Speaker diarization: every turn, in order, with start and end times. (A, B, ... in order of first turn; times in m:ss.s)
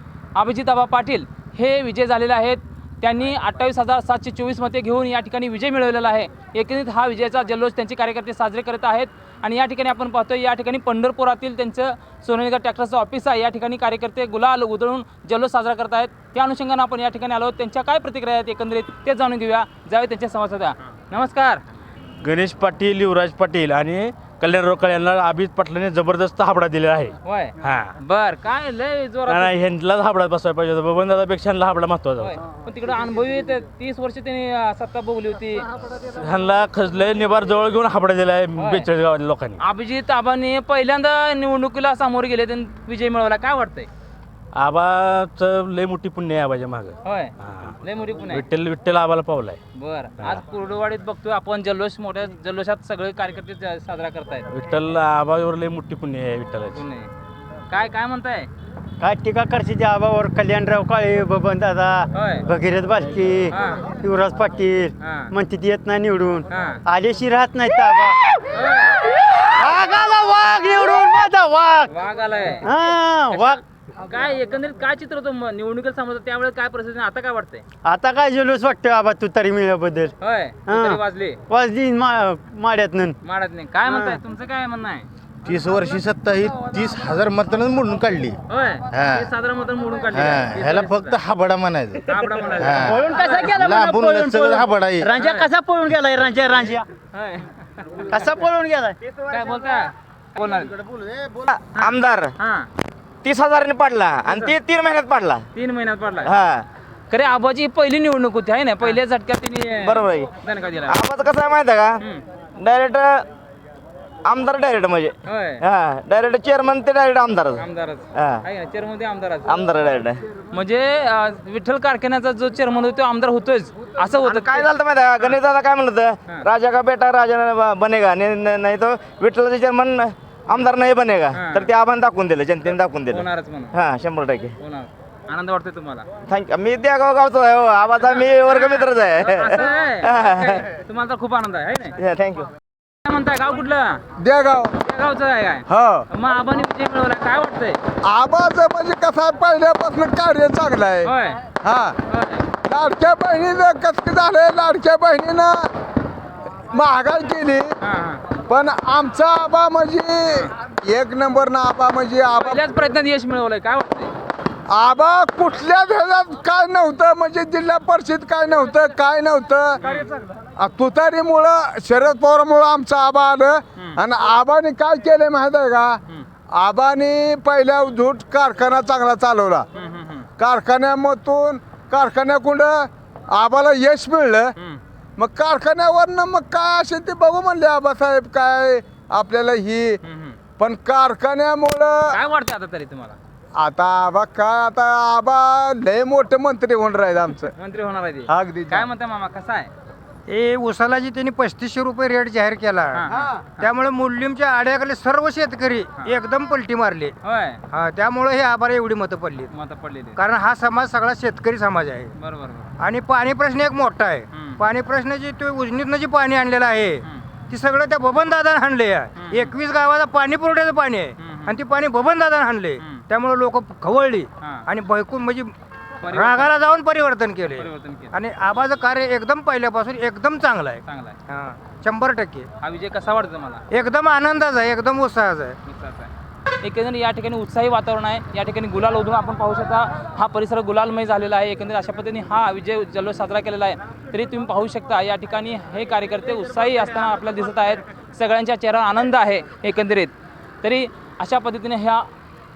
0:00.3-0:21.6 A
0:22.2-0:27.9 B
0:27.2-0:29.6 A
0:29.3-0:32.4 B
0:32.2-0:35.7 A
0:36.0-0:39.6 B
0:38.6-0:38.9 A
0:39.6-0:43.9 A
0:44.5-0:49.6 B
0:47.0-0:48.4 A
0:49.8-0:54.5 A
0:54.5-0:56.8 B
0:56.7-0:57.1 A
0:57.7-0:58.5 A
0:59.0-1:08.2 C
1:02.1-1:02.4 A
1:03.5-1:03.9 A
1:05.0-1:05.3 A
1:06.5-1:06.8 A
1:08.5-1:09.0 A
1:09.4-1:11.9 C
1:11.9-1:12.7 A
1:12.6-1:13.6 C
1:13.3-1:17.6 A
1:17.8-1:20.1 C
1:20.2-1:21.4 A
1:20.7-1:23.2 C
1:23.2-1:25.1 A
1:23.9-1:24.2 C
1:25.4-1:28.4 D
1:28.5-1:31.2 A
1:28.9-1:29.2 D
1:30.1-1:32.0 D
1:32.1-1:33.6 A
1:32.6-1:35.1 D
1:32.9-1:36.8 C
1:35.2-1:35.5 A
1:37.1-1:38.1 A
1:38.1-1:39.0 C
1:39.3-1:40.7 A
1:40.9-1:41.3 D
1:41.3-1:42.3 E
1:41.8-1:42.7 A
1:43.2-1:45.4 E
1:44.3-1:44.5 A
1:45.5-1:46.3 A
1:46.2-1:46.6 E
1:47.1-1:51.0 A
1:49.8-1:50.3 E
1:50.9-1:52.0 E
1:52.6-1:53.3 E
1:54.2-1:57.6 E
1:55.3-1:55.6 A
1:57.6-1:59.5 A
1:58.1-1:58.4 E
1:59.5-2:00.2 E
2:00.5-2:04.7 A
2:04.2-2:14.5 E
2:11.3-2:11.7 A
2:13.1-2:13.7 A
2:14.6-2:16.1 A
2:16.2-2:20.6 E
2:18.0-2:21.9 A
2:22.0-2:22.5 E
2:23.0-2:24.0 A
2:24.2-2:24.7 F
2:24.8-2:27.8 A
2:25.7-2:26.1 F
2:28.0-2:31.1 F
2:31.0-2:31.4 A
2:31.6-2:32.0 F
2:32.1-2:32.4 A
2:32.6-2:35.7 F
2:36.7-2:37.7 F
2:37.8-2:38.2 A
2:38.5-2:42.6 F
2:42.3-2:44.1 A
2:44.7-2:49.8 F
2:49.8-2:50.1 A
2:50.6-2:56.0 F
2:56.5-2:59.6 F
2:59.7-3:00.3 A
3:00.4-3:04.5 F
3:05.2-3:10.0 F
3:10.0-3:10.4 A
3:10.6-3:12.2 F
3:12.1-3:13.2 A
3:13.6-3:17.5 F
3:17.5-3:19.7 A
3:18.3-3:18.8 F
3:20.3-3:23.0 G
3:22.9-3:23.6 A
3:23.6-3:27.1 G
3:27.2-3:27.6 A
3:27.7-3:29.5 G
3:29.5-3:30.2 A
3:30.2-3:32.1 G
3:32.2-3:32.7 A
3:32.8-3:45.5 G
3:34.3-3:34.6 A
3:39.2-3:39.5 A
3:41.2-3:41.5 A
3:42.8-3:43.0 A
3:44.4-3:44.7 A
3:46.0-3:46.5 A
3:46.1-3:52.5 G
3:47.5-3:48.1 A
3:50.8-3:51.2 A
3:52.6-3:53.6 A
3:53.7-3:55.6 G
3:55.6-3:56.1 A
3:56.6-4:12.1 A